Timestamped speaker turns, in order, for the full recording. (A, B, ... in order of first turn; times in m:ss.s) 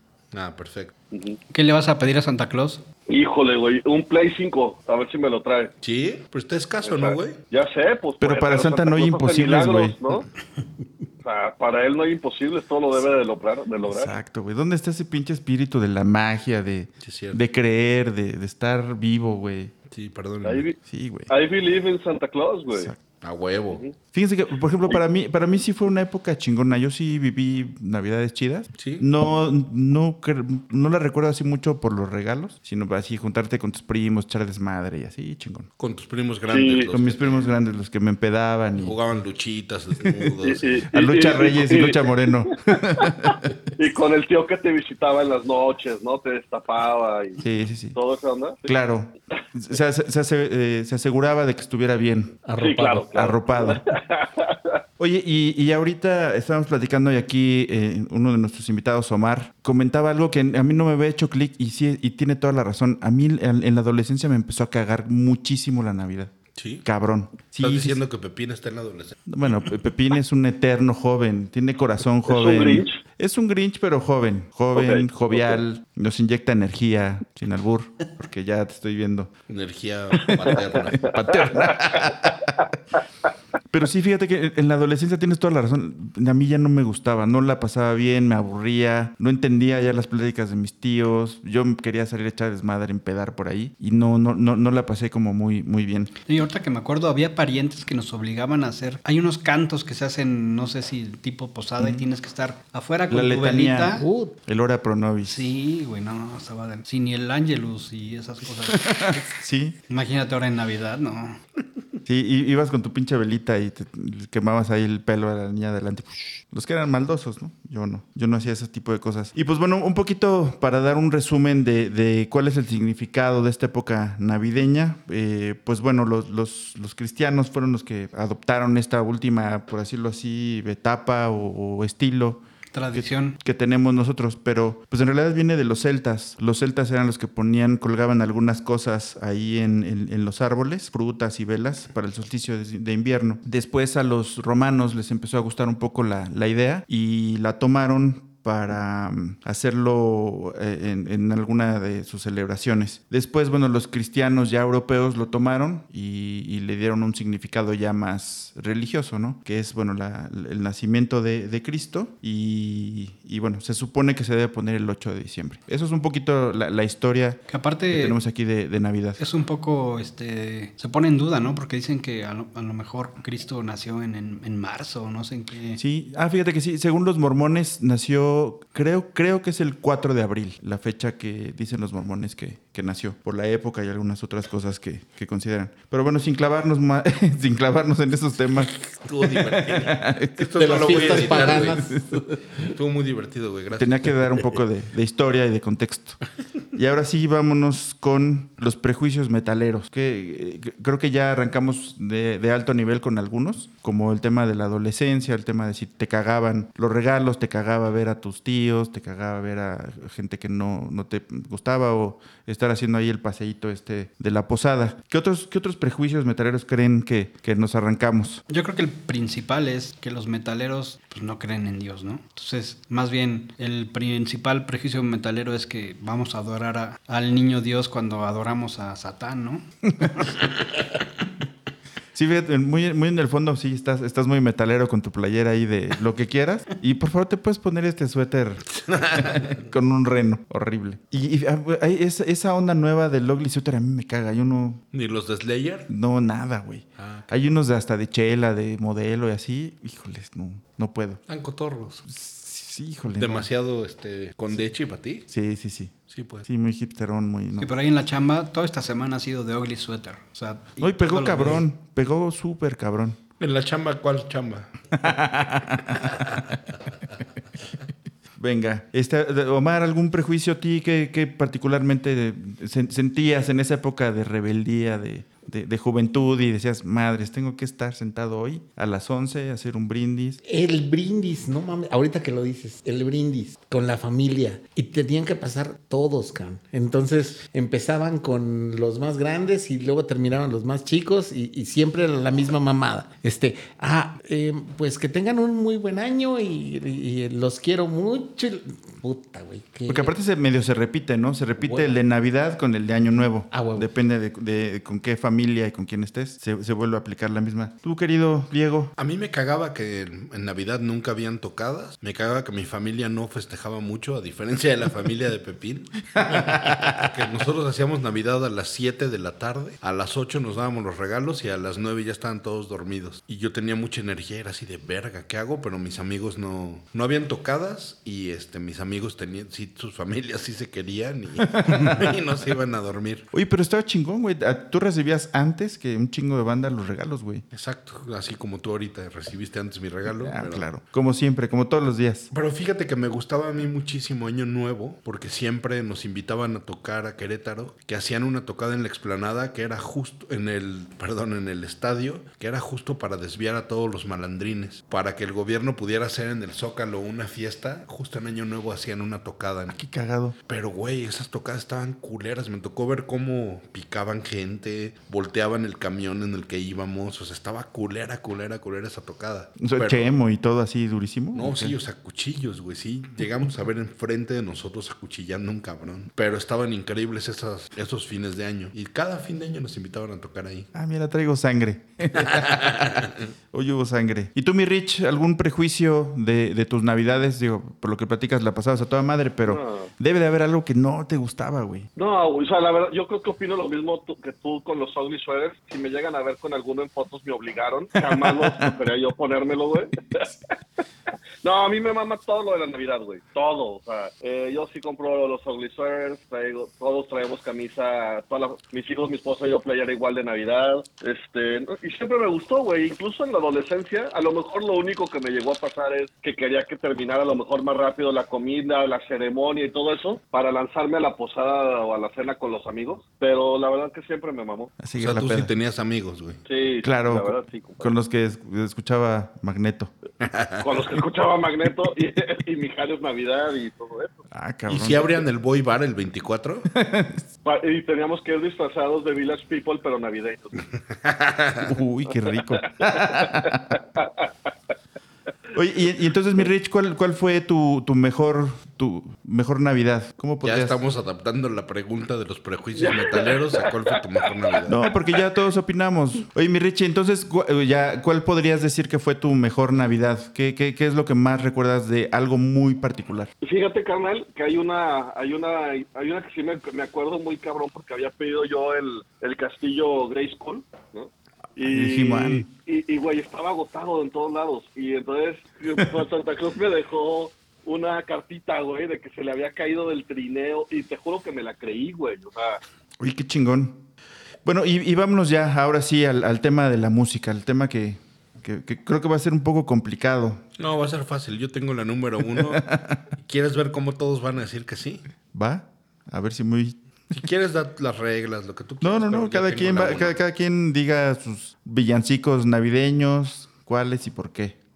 0:00.3-0:00.9 A
0:01.1-0:01.4 B
0:01.5-0:02.8 C
0:03.1-0:05.7 B
0:05.8-0:07.4 A
0:06.8-0:10.2 B
0:08.2-0:10.0 D
0:11.2-0:14.1 B
0:13.8-0:19.7 D
0:17.0-0:17.4 A
0:19.9-0:20.6 A
0:20.4-0:20.8 B
0:20.8-0:21.3 D
0:21.3-0:22.9 B
0:22.7-0:23.0 D
0:23.2-0:23.8 A
0:24.1-0:35.7 D
0:28.8-0:29.1 A
0:35.8-0:37.5 A
0:36.5-0:36.9 B
0:36.9-0:39.0 D
0:38.8-0:40.8 A
0:40.4-0:47.4 B
0:40.9-0:43.5 D
0:47.4-0:47.9 D
0:47.9-0:48.7 B
0:48.6-0:52.4 D
0:52.4-0:53.1 E
0:52.6-0:54.7 B
0:53.1-0:53.8 D
0:55.0-1:06.3 D
1:06.6-1:06.8 A
1:06.8-1:08.0 D
1:07.6-1:09.1 A
1:09.3-1:19.3 D
1:12.3-1:13.0 B
1:14.7-1:15.6 B
1:19.5-1:21.1 A
1:20.9-1:22.6 D
1:23.7-1:36.1 D
1:36.2-1:44.0 C
1:41.8-1:42.1 D
1:43.1-1:45.5 D
1:44.0-1:44.4 E
1:45.2-1:49.2 C
1:48.7-1:49.8 D
1:49.9-1:51.4 C
1:52.0-2:12.4 D
2:12.7-2:13.4 C
2:12.9-2:49.2 D
2:47.5-2:48.2 C
2:49.2-2:55.8 C
2:55.8-3:12.0 D
3:08.9-3:11.8 A
3:10.5-3:12.7 E
3:12.6-3:14.4 A
3:13.8-3:16.2 D
3:16.7-3:38.4 D
3:38.5-3:50.3 C
3:50.0-3:50.3 D
3:52.1-4:04.8 D
3:58.8-3:59.6 A
4:04.9-4:05.9 A
4:05.9-4:11.2 D
4:07.0-4:07.3 A
4:11.3-4:12.0 A
4:12.0-4:13.5 D
4:13.1-4:15.3 A
4:15.3-4:15.9 D
4:16.1-4:16.5 A
4:16.4-4:17.7 D
4:17.6-4:21.6 C
4:20.8-4:23.2 D
4:23.4-4:24.7 A
4:24.9-4:26.6 D
4:26.0-4:26.4 A
4:28.4-4:40.4 D
4:40.4-5:00.1 E
4:59.9-5:08.9 D
5:01.6-5:02.0 E
5:03.5-5:03.9 E
5:09.0-5:33.3 A
5:16.2-5:16.9 D
5:31.4-5:32.1 D
5:33.3-5:37.4 D
5:37.5-5:40.6 A
5:40.1-5:42.3 D
5:42.3-5:59.8 A
5:59.7-6:00.4 D
6:00.5-6:10.1 A
6:09.6-6:11.8 D
6:11.3-6:20.7 A
6:20.7-6:31.9 D
6:22.2-6:23.0 A
6:29.5-6:29.9 B
6:32.0-6:40.3 B
6:38.1-6:38.7 D
6:41.4-7:04.7 B
7:04.8-7:05.5 D
7:05.0-7:06.4 A
7:06.5-7:07.9 B
7:06.8-7:09.9 D
7:10.2-7:10.8 A
7:10.6-7:14.2 B
7:14.3-7:15.2 D
7:14.7-7:16.7 A
7:16.7-7:17.3 D
7:17.4-7:20.7 B
7:21.0-7:21.6 A
7:21.6-7:23.8 D
7:25.5-7:30.8 D
7:30.4-7:34.8 A
7:32.8-7:33.6 B
7:34.7-7:43.3 D
7:43.4-8:02.6 B
7:51.6-7:52.4 D
8:03.0-8:03.8 D
8:04.4-8:10.4 D
8:10.6-8:12.7 A
8:12.4-8:13.0 D
8:13.2-8:15.0 A
8:15.3-8:17.2 D
8:17.1-8:20.2 A
8:18.8-8:24.6 D